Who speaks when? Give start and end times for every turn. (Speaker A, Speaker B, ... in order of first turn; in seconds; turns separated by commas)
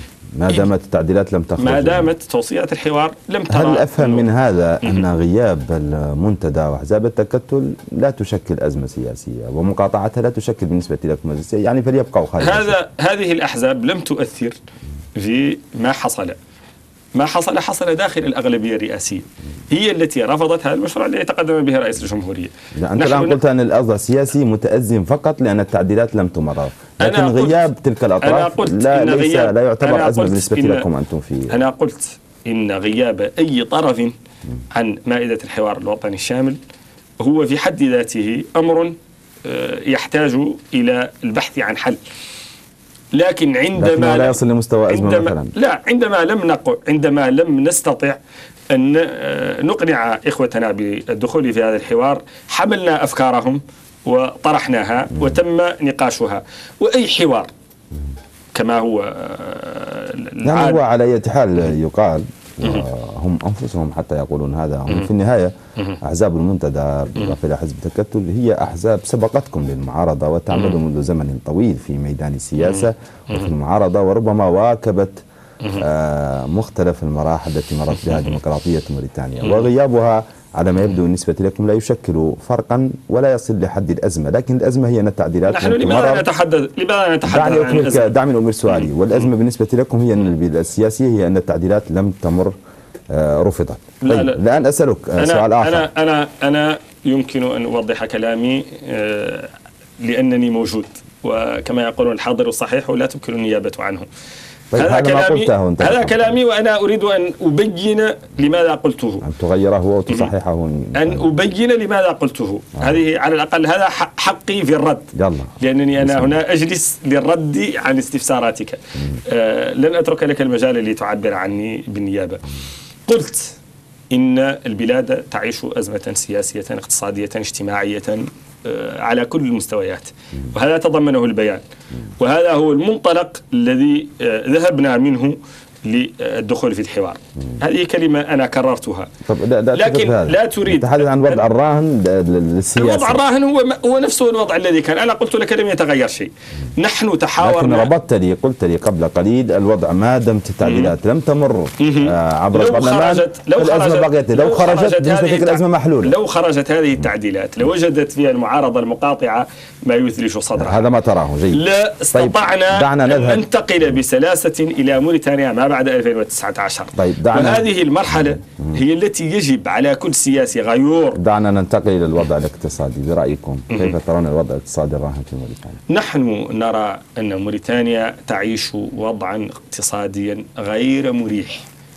Speaker A: 0.4-2.1, Speaker B: 1.6-4.3, Speaker A: 3.5-12.8, Speaker B: 12.4-14.6, Speaker B: 15.2-16.4, Speaker B: 17.1-23.4, Speaker A: 22.8-31.6, Speaker B: 27.0-27.6, Speaker B: 28.2-30.9, Speaker B: 31.5-34.1, Speaker B: 34.7-36.6, Speaker B: 37.2-42.0, Speaker B: 43.1-48.2, Speaker A: 43.8-45.5, Speaker B: 48.7-57.5, Speaker A: 55.1-55.4, Speaker B: 58.5-60.8, Speaker A: 60.4-86.3, Speaker B: 72.6-73.5, Speaker B: 85.5-88.1, Speaker A: 87.3-92.6, Speaker A: 93.1-95.9, Speaker B: 94.0-94.4, Speaker B: 95.2-104.1, Speaker A: 104.7-106.4, Speaker B: 104.8-109.3, Speaker A: 109.2-111.3, Speaker B: 111.0-122.5, Speaker A: 115.2-116.4, Speaker B: 123.1-123.6, Speaker B: 124.1-131.7, Speaker B: 132.2-139.1, Speaker A: 139.3-143.2, Speaker B: 139.7-141.5, Speaker B: 142.8-147.9, Speaker A: 147.4-156.2, Speaker B: 150.6-150.9, Speaker B: 151.8-160.9, Speaker A: 160.6-163.4, Speaker B: 161.5-171.2, Speaker A: 166.9-168.8, Speaker A: 171.2-175.8, Speaker B: 175.9-181.7